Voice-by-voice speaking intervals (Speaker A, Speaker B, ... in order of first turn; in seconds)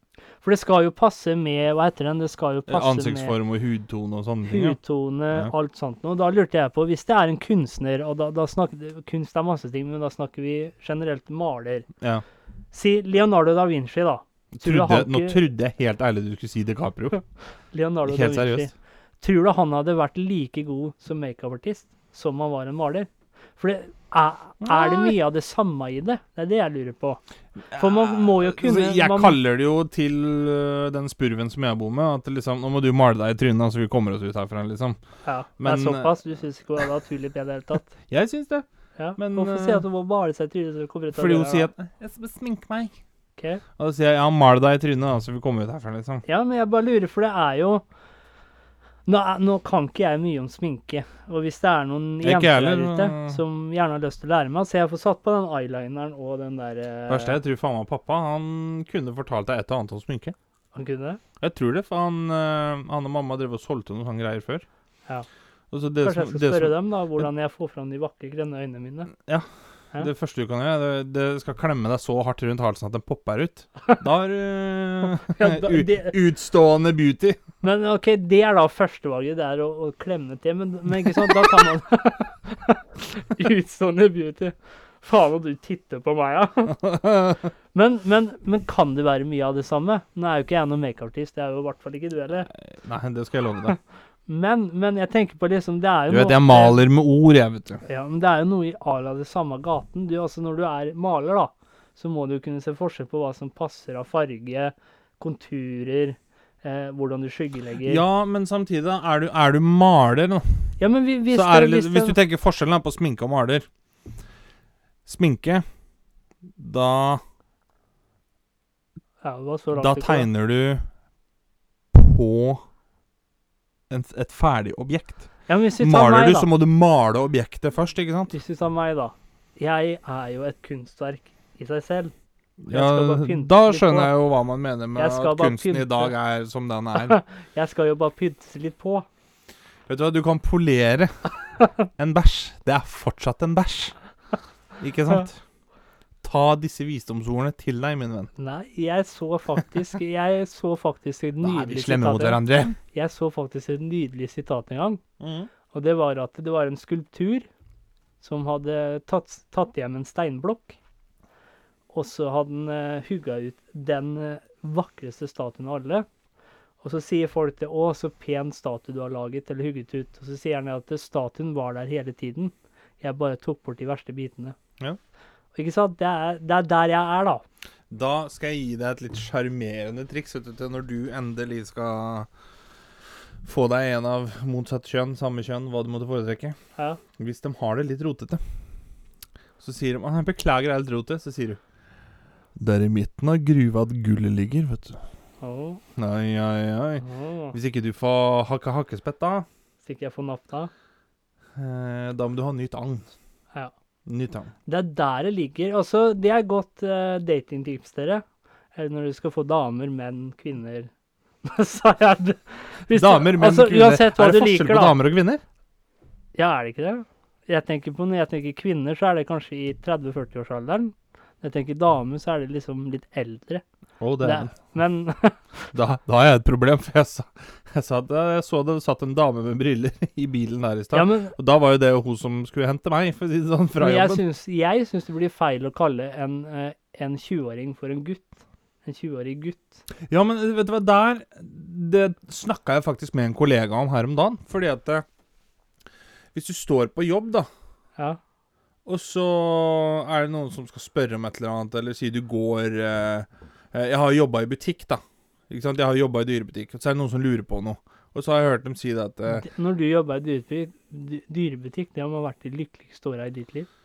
Speaker A: 0.4-3.3, 4.5-11.9, 12.7-15.4, 17.7-27.2, 27.7-29.4, 35.2-38.0, 39.0-41.7, 43.4-43.6, 46.3-47.8, 49.0-57.4, 60.7-61.2, 66.0-69.1, 75.2-76.2, 77.6-86.9, 87.7-92.5, 94.3-96.8, 97.8-108.0, 110.8-112.2, 119.2-120.3, 125.5-126.5, 128.3-132.1, 132.7-134.1, 134.9-136.1, 136.9-139.1, 148.4-152.4, 152.9-155.0, 155.7-157.5, 158.2-160.8, 161.9-166.1, 166.8-174.6, 175.6-177.4, 195.4-195.8, 197.0-197.6, 199.8-200.7, 204.7-208.2, 208.7-210.9, 211.4-214.9, 216.3-223.6, 224.2-225.7, 230.9-231.3, 233.8-239.8, 259.3-263.7
Speaker B: 2.7-4.8, 14.5-17.2, 18.1-18.7, 24.6-25.1, 27.7-35.0, 35.6-36.2, 38.0-38.6, 39.2-39.8, 41.1-43.0, 43.8-46.2, 52.2-53.4, 57.1-60.3, 61.4-64.6, 65.7-67.2, 69.2-69.5, 70.0-77.4, 86.8-87.4, 92.7-93.8, 96.1-97.8, 107.8-110.6, 111.3-113.7, 115.0-115.6, 116.6-117.2, 119.7-120.8, 121.9-122.6, 123.9-125.3, 125.8-128.3, 132.6-137.2, 139.9-141.2, 141.9-143.9, 144.8-145.4, 146.2-148.3, 151.4-152.8, 155.2-155.5, 177.9-182.3, 183.4-186.6, 187.2-188.4, 189.6-191.6, 192.6-195.0, 195.9-199.4, 201.6-203.1, 204.1-204.5, 212.9-215.4, 224.0-224.5, 225.7-234.2, 240.1-245.1, 246.3-247.5, 248.9-259.4